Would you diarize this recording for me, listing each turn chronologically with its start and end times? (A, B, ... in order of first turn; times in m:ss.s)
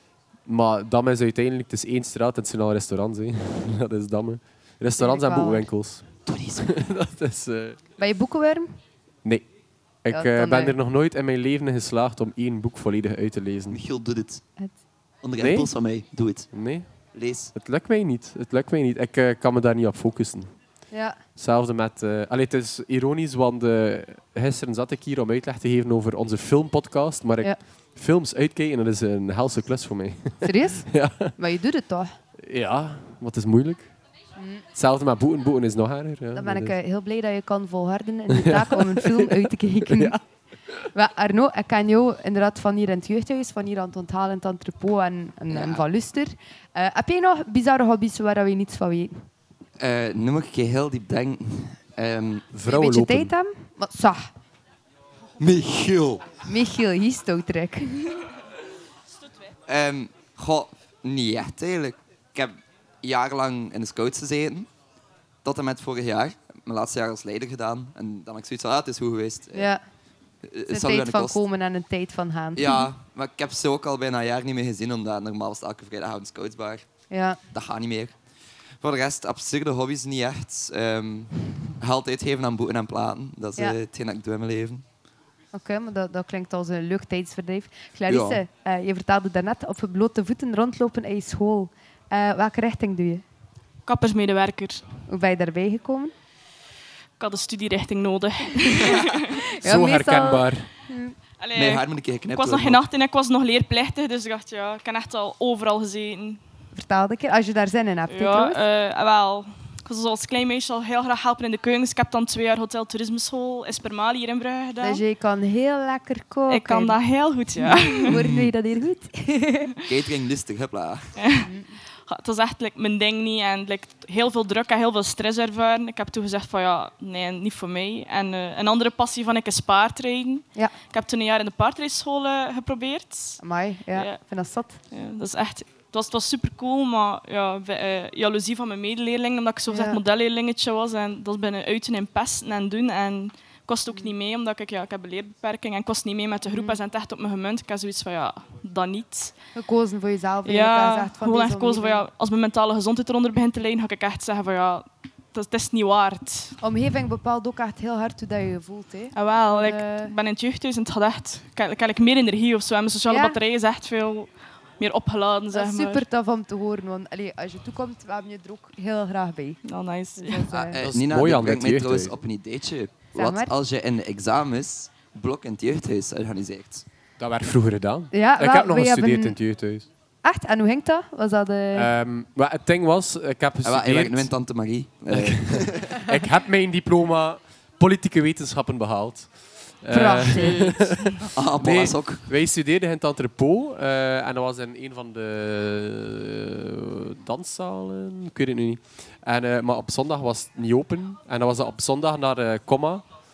0:00.5-0:07.8 A
0:05.0-0:05.7 B
0:06.3-0:06.7 C
0:08.0-0:08.7 B
0:10.0-0:13.8 A
0:10.1-0:10.8 B
0:13.7-0:14.4 C
0:15.2-0:16.5 C
0:15.4-0:15.7 A
0:16.5-0:16.9 A
0:17.1-0:17.5 C
0:17.5-0:20.5 A
0:20.9-0:21.2 B
0:21.4-0:31.3 A
0:30.4-0:32.1 B
0:32.4-0:33.9 A
0:34.4-0:34.6 B
0:34.7-0:36.8 A
0:36.3-0:40.2 B
0:38.3-0:40.2 A
0:40.9-0:49.1 B
0:45.5-0:45.8 C
0:49.8-0:52.5 C
0:52.5-0:53.3 A
0:52.7-0:54.3 B
0:55.4-0:56.3 C
0:56.4-0:58.1 B
0:59.7-1:04.7 C
1:05.4-1:09.7 C
1:09.5-1:09.8 B
1:10.4-1:11.4 C
1:10.7-1:12.8 B
1:12.6-1:16.9 C
1:17.1-1:17.4 B
1:17.5-1:18.1 C
1:18.8-1:24.8 C
1:25.5-1:33.2 B
1:28.1-1:28.4 C
1:33.9-1:34.8 D
1:35.1-1:36.1 B
1:37.2-1:39.4 D
1:39.6-1:40.7 A
1:39.6-1:41.1 B
1:41.4-1:46.4 D
1:41.6-1:42.8 C
1:46.8-1:48.6 B
1:48.1-1:55.0 D
1:54.8-1:57.0 B
1:56.5-1:58.1 D
1:57.6-1:59.7 B
1:58.1-1:58.5 C
1:59.9-2:01.1 C
2:01.2-2:01.5 D
2:01.4-2:01.7 B
2:02.1-2:13.4 D
2:13.4-2:14.8 B
2:14.9-2:29.4 D
2:19.7-2:20.0 B
2:26.5-2:26.8 B
2:29.6-2:32.0 B
2:30.4-2:36.6 D
2:36.6-2:40.1 B
2:39.1-2:46.0 D
2:43.1-2:43.4 B
2:45.5-2:49.6 B
2:49.6-2:50.5 D
2:50.2-2:50.8 B
2:50.5-2:56.8 C
2:50.8-2:52.2 A
2:53.1-2:53.5 B
2:57.2-2:59.9 A
2:58.1-2:59.4 B
3:00.2-3:01.9 B
3:01.7-3:04.3 A
3:03.6-3:06.0 C
3:05.1-3:23.0 A
3:09.9-3:10.7 B
3:11.3-3:12.2 C